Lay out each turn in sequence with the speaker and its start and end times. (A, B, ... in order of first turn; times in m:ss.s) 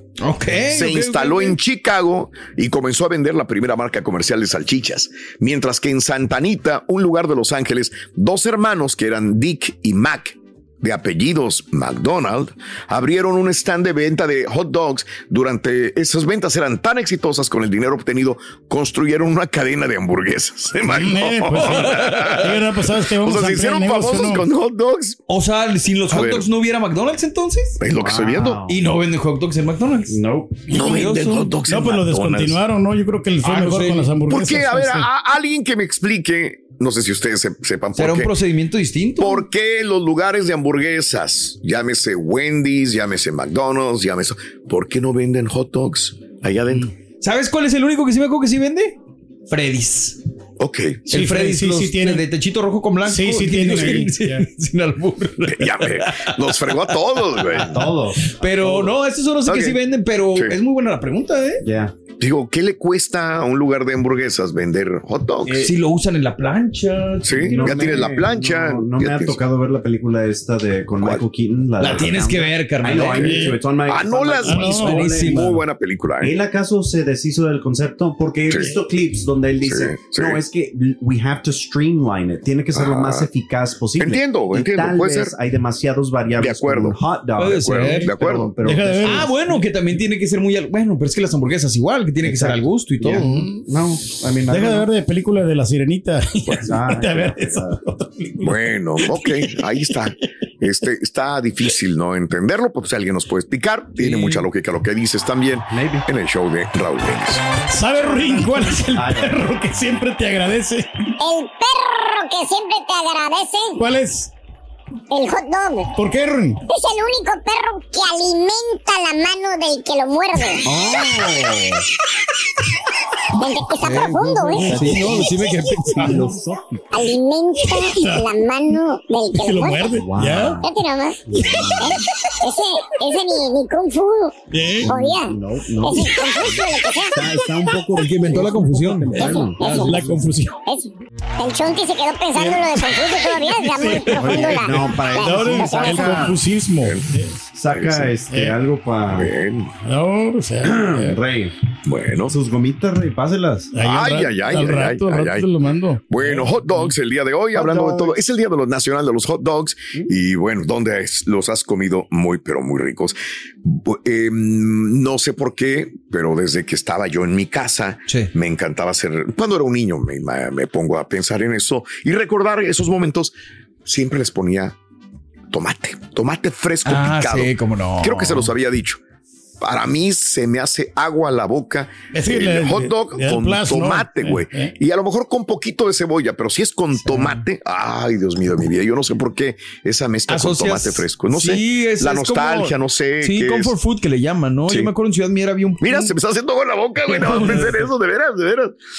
0:00.2-0:01.6 A
0:00.6-0:22.6 B
0:20.9-0:24.4 C
0:21.6-0:22.4 A
0:23.1-0:25.2 B
0:25.3-0:27.8 A
0:26.1-0:26.4 B
0:27.8-0:28.6 B
0:27.9-0:28.8 D
0:28.7-0:31.5 A
0:30.1-0:30.7 D
0:30.7-0:32.6 B
0:31.7-0:35.1 C
0:33.4-0:34.1 A
0:34.3-0:38.3 B
0:38.0-0:39.4 A
0:39.2-0:46.9 B
0:47.2-0:49.0 A
0:49.5-0:50.2 A
0:50.6-0:51.0 B
0:51.1-0:52.2 C
0:51.1-1:01.6 A
0:53.0-0:54.4 C
0:53.7-0:54.0 B
0:55.4-0:57.8 B
0:57.5-0:58.9 D
0:59.4-0:59.8 B
1:01.6-1:01.9 D
1:02.2-1:05.7 B
1:05.6-1:08.1 A
1:07.2-1:09.4 B
1:07.5-1:15.6 D
1:11.8-1:13.5 A
1:13.2-1:13.6 C
1:13.8-1:16.3 B
1:14.4-1:15.0 C
1:14.5-1:15.6 A
1:16.2-1:29.4 D
1:18.5-1:18.7 B
1:19.6-1:20.4 B
1:22.7-1:23.3 B
1:24.0-1:25.3 B
1:26.4-1:27.0 B
1:27.4-1:28.1 A
1:27.5-1:28.5 B
1:28.6-1:29.3 C
1:29.0-1:33.3 A
1:32.2-1:34.9 D
1:33.1-1:33.6 C
1:34.5-1:38.6 C
1:36.6-1:37.8 D
1:38.4-1:47.4 B
1:44.0-1:44.4 A
1:45.7-1:46.0 D
1:47.7-1:50.9 C
1:48.0-1:49.4 D
1:51.2-1:53.8 E
1:53.8-1:54.3 C
1:55.1-1:55.9 E
1:55.9-1:56.6 C
1:56.7-2:01.0 E
2:00.6-2:01.8 D
2:03.4-2:04.8 E
2:03.8-2:06.3 A
2:04.5-2:06.6 D
2:04.6-2:05.3 C
2:06.0-2:06.2 C
2:06.9-2:10.0 E
2:07.6-2:08.3 C
2:09.3-2:10.6 C
2:09.9-2:10.7 D
2:10.6-2:17.7 E
2:11.2-2:12.0 D
2:14.5-2:14.9 C
2:14.8-2:20.2 D
2:17.9-2:20.0 A
2:19.2-2:20.0 E
2:19.2-2:20.6 C
2:20.6-2:26.2 E
2:22.4-2:22.9 C
2:23.4-2:27.4 C
2:24.1-2:26.4 D
2:26.8-2:27.1 B
2:27.5-2:29.3 D
2:27.7-2:28.1 B
2:28.3-2:28.6 C
2:29.1-2:29.7 B
2:29.8-2:31.2 C
2:30.6-2:31.5 D
2:31.8-2:32.3 B
2:32.3-2:33.7 D
2:33.7-2:36.0 C
2:33.8-2:35.5 B
2:36.1-2:54.7 B
2:37.5-2:38.2 D
2:55.5-2:59.0 B
2:56.8-2:58.5 A
2:59.6-3:13.7 B
3:02.1-3:04.7 C
3:07.0-3:07.4 A
3:10.3-3:16.1 A
3:15.8-3:18.7 B
3:17.0-3:17.9 A